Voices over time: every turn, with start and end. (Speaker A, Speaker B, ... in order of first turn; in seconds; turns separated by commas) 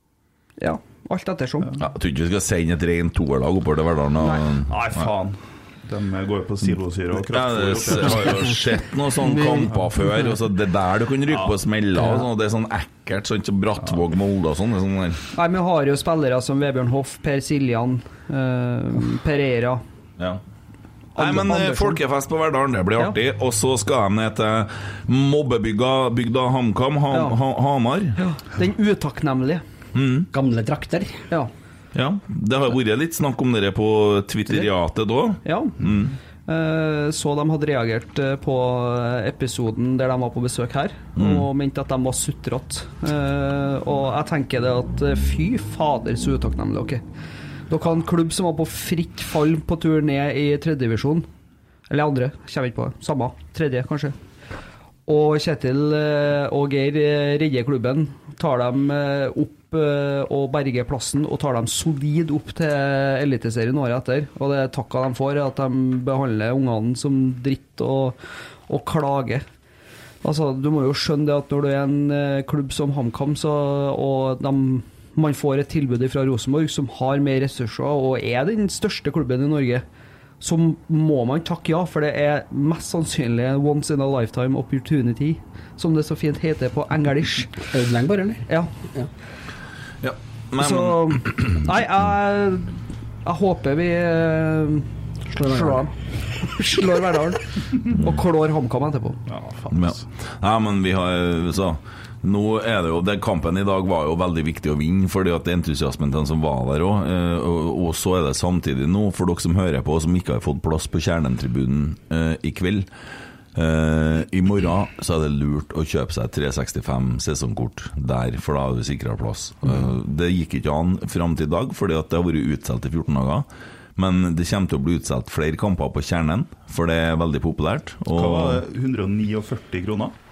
Speaker A: 0.6-1.7, Speaker B: 1.8-5.1, Speaker A: 4.2-4.5, Speaker C: 4.7-8.5, Speaker B: 7.2-15.2, Speaker D: 9.3-9.6, Speaker A: 15.3-19.8, Speaker A: 21.1-22.0, Speaker B: 21.1-28.2, Speaker A: 27.1-27.4, Speaker A: 28.2-29.6, Speaker B: 29.9-30.3, Speaker D: 30.3-31.2, Speaker B: 31.9-36.1, Speaker A: 35.4-35.8, Speaker A: 36.5-47.0, Speaker B: 41.1-41.5, Speaker A: 47.7-51.3, Speaker A: 51.9-54.1, Speaker A: 55.1-68.2, Speaker A: 68.7-69.4, Speaker A: 70.2-79.8, Speaker A: 80.4-87.5, Speaker D: 87.7-89.1, Speaker B: 90.0-91.6, Speaker A: 90.6-94.9, Speaker D: 95.3-95.9, Speaker A: 95.4-95.9, Speaker A: 96.4-99.2, Speaker C: 99.3-100.0, Speaker B: 99.7-112.9, Speaker B: 113.5-128.6, Speaker C: 128.1-130.1